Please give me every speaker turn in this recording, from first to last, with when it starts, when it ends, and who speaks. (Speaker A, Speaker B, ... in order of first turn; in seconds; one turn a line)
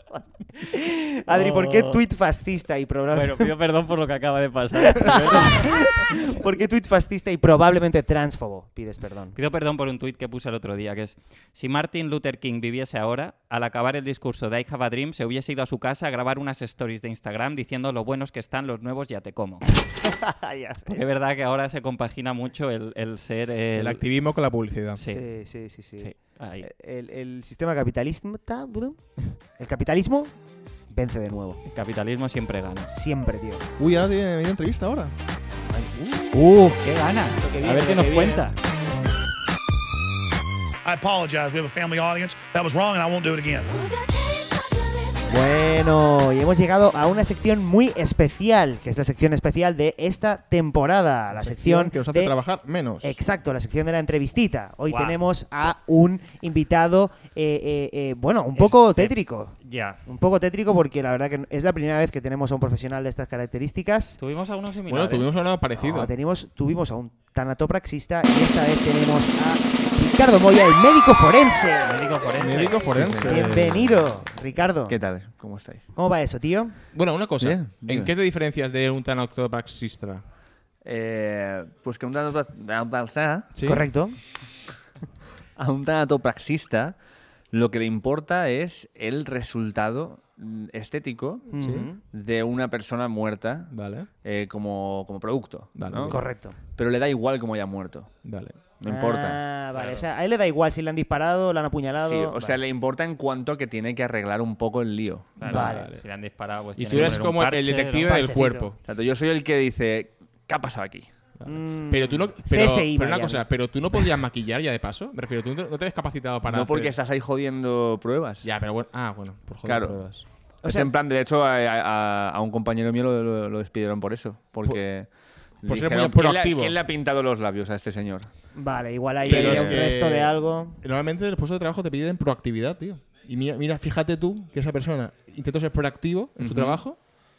Speaker A: 0.7-3.5
Speaker B: 1.3-2.0
Speaker B: 3.1-5.9
Speaker A: 4.8-9.4
Speaker B: 9.3-19.8
Speaker A: 20.1-21.1
Speaker B: 20.9-24.0
Speaker C: 23.7-25.0
Speaker B: 25.0-25.3
Speaker A: 25.1-29.0
Speaker B: 26.0-26.7
Speaker A: 29.6-30.3
Speaker A: 30.9-31.6
Speaker B: 31.7-32.9
Speaker A: 32.9-33.7
Speaker C: 33.8-35.1
Speaker A: 35.7-36.3
Speaker B: 36.2-38.6
Speaker A: 37.4-38.5
Speaker D: 40.9-43.8
Speaker A: 45.3-52.4
Speaker C: 51.3-53.2
Speaker A: 53.0-64.2
Speaker B: 54.9-55.2
Speaker B: 58.5-60.0
Speaker B: 64.2-65.3
Speaker C: 64.9-66.1
Speaker A: 65.8-72.2
Speaker B: 71.8-73.4
Speaker C: 72.4-74.1
Speaker A: 72.9-75.0
Speaker E: 74.9-75.9
Speaker A: 76.0-76.8
Speaker C: 76.9-80.2
Speaker E: 77.4-78.1
Speaker E: 80.8-83.5
Speaker C: 83.5-83.8
Speaker A: 83.7-84.2
Speaker E: 85.6-87.0
Speaker E: 87.5-93.7
Speaker A: 91.5-92.0
Speaker C: 91.6-91.9
Speaker C: 93.7-94.1
Speaker E: 94.2-96.2
Speaker C: 95.8-96.2
Speaker A: 96.1-96.6
Speaker E: 96.8-98.1
Speaker C: 98.2-98.6
Speaker E: 98.8-100.0
Speaker A: 98.8-102.6
Speaker E: 102.0-105.5
Speaker B: 105.4-108.3
Speaker A: 105.4-105.9
Speaker C: 105.5-106.1
Speaker C: 106.8-108.8
Speaker A: 108.1-108.7
Speaker E: 108.8-111.1
Speaker C: 111.4-117.0
Speaker A: 111.5-113.5
Speaker E: 116.5-118.5
Speaker C: 118.4-120.3
Speaker E: 119.7-120.0
Speaker A: 120.6-120.9
Speaker E: 120.6-128.3
Speaker C: 125.7-126.8
Speaker A: 128.5-130.8
Speaker E: 129.2-129.8
Speaker C: 129.3-137.0
Speaker E: 136.4-136.8